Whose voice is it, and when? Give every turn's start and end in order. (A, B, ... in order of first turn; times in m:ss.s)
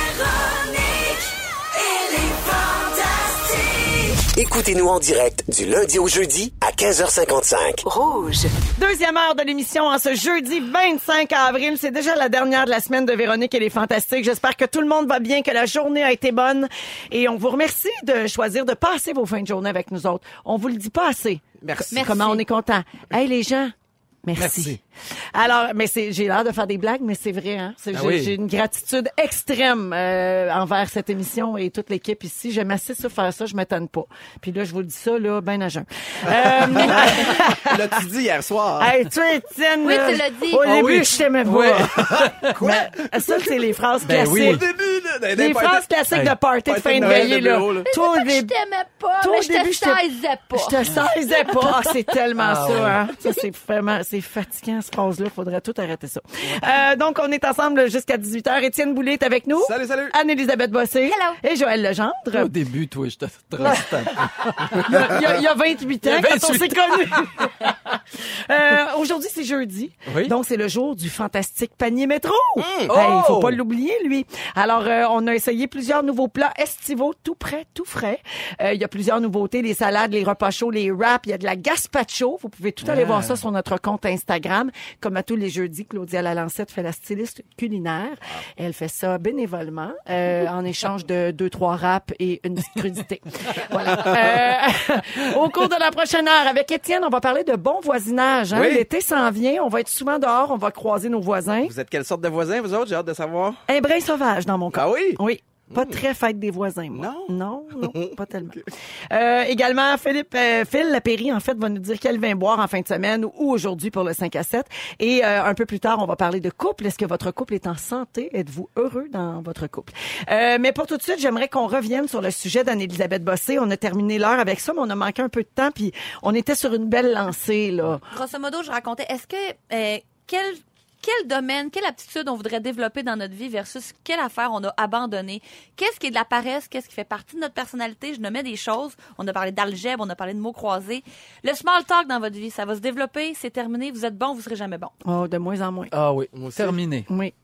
0:00.4-0:01.1 A
0:01.8-0:08.5 A
0:08.7-0:24.8 B
0:21.6-0:22.2 C
0:21.9-0:22.4 D
0:24.4-0:24.8 E
0:25.3-0:37.9 B
0:27.9-0:28.4 E
0:36.4-0:38.9 C
0:38.8-0:44.7 B
0:39.8-0:40.7 D
0:40.6-0:42.7 E
0:42.4-0:43.4 C
0:44.0-0:44.6 E
0:44.4-0:45.9 C
0:45.3-0:48.5 B
0:46.6-0:47.9 C
0:47.8-0:50.8 D
0:49.2-1:02.5 B
0:51.4-0:51.9 D
0:52.4-0:53.0 E
0:59.6-1:00.1 C
1:01.1-1:01.4 D
1:02.3-1:05.3 E
1:03.6-1:04.3 B
1:04.8-1:05.2 C
1:04.8-1:07.7 B
1:06.0-1:07.7 E
1:08.5-1:41.7 B
1:10.0-1:10.3 E
1:12.6-1:12.9 C
1:12.9-1:13.6 E
1:22.8-1:23.4 E
1:38.5-1:38.8 C
1:41.6-1:43.6 C
1:43.7-2:08.0 B
1:44.7-1:46.0 C
1:46.9-1:48.1 C
2:08.1-2:24.9 D
2:25.0-2:25.9 B
2:25.9-2:27.1 E
2:26.3-2:26.8 C
2:27.1-2:27.3 B